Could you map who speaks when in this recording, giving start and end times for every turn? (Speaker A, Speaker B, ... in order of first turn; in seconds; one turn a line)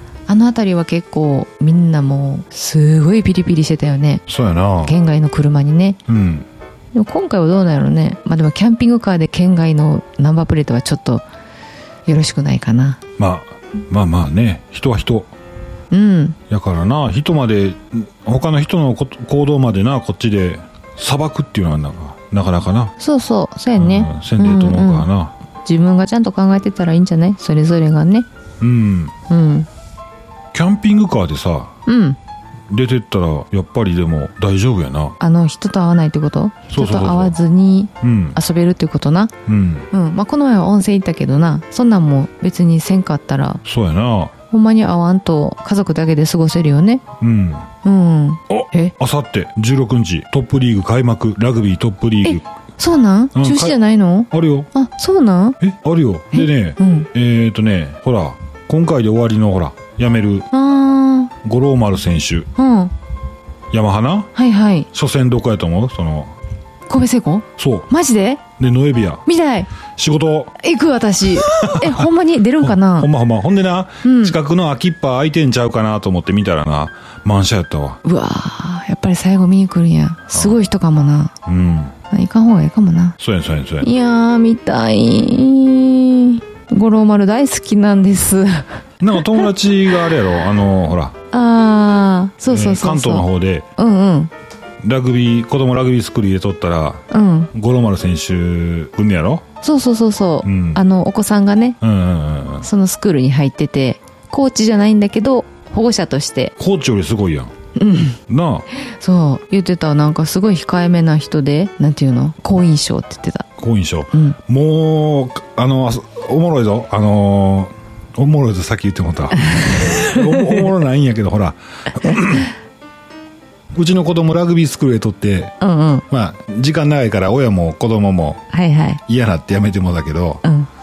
Speaker A: 0.3-4.2
Speaker B: 4.3-5.0
Speaker A: 4.8-6.0
Speaker B: 6.1-6.5
Speaker A: 6.9-11.2
Speaker A: 12.1-13.0
Speaker B: 13.2-15.3
Speaker A: 15.9-16.4
Speaker B: 16.5-22.9
Speaker A: 23.0-25.1
Speaker B: 23.8-25.3
Speaker A: 25.6-28.3
Speaker B: 28.6-29.1
Speaker A: 29.3-29.7
Speaker B: 30.5-31.7
Speaker A: 31.9-32.2
Speaker B: 32.7-35.2
Speaker A: 35.2-39.3
Speaker B: 36.7-37.4
Speaker B: 38.0-38.4
Speaker B: 39.5-39.9
Speaker A: 39.9-43.6
Speaker B: 43.6-44.3
Speaker A: 44.5-47.0
Speaker B: 47.2-47.7
Speaker A: 47.8-48.9
Speaker B: 48.5-52.5
Speaker A: 52.2-55.6
Speaker B: 53.3-53.8
Speaker B: 54.3-54.7
Speaker B: 55.6-60.5
Speaker A: 56.3-57.1
Speaker A: 60.5-61.3
Speaker B: 61.4-62.5
Speaker A: 62.6-62.9
Speaker B: 63.7-64.3
Speaker A: 64.3-64.9
Speaker B: 64.9-66.3
Speaker A: 66.9-68.4
Speaker B: 67.6-67.9
Speaker B: 68.6-69.2
Speaker A: 69.3-69.7
Speaker B: 70.0-70.6
Speaker A: 70.6-73.1
Speaker B: 71.4-72.1
Speaker B: 72.6-78.0
Speaker A: 74.0-74.4
Speaker A: 78.0-81.3
Speaker B: 80.3-80.6
Speaker B: 81.5-82.0
Speaker A: 82.1-83.2
Speaker B: 83.2-83.9
Speaker A: 83.8-88.7
Speaker B: 89.0-91.2
Speaker A: 91.3-94.3
Speaker B: 92.5-93.7
Speaker B: 94.8-99.5
Speaker A: 97.1-97.5
Speaker A: 99.6-101.8
Speaker B: 100.4-100.8
Speaker B: 101.8-102.7
Speaker A: 102.6-106.5
Speaker B: 106.6-107.5
Speaker A: 107.8-108.2
Speaker B: 108.3-108.7
Speaker A: 108.8-113.5
Speaker B: 113.6-122.5
Speaker A: 114.1-114.4
Speaker A: 119.4-120.7
Speaker B: 123.7-125.6
Speaker A: 125.6-126.0
Speaker B: 126.1-128.4
Speaker A: 128.5-129.0
Speaker B: 129.1-130.4
Speaker A: 130.4-130.7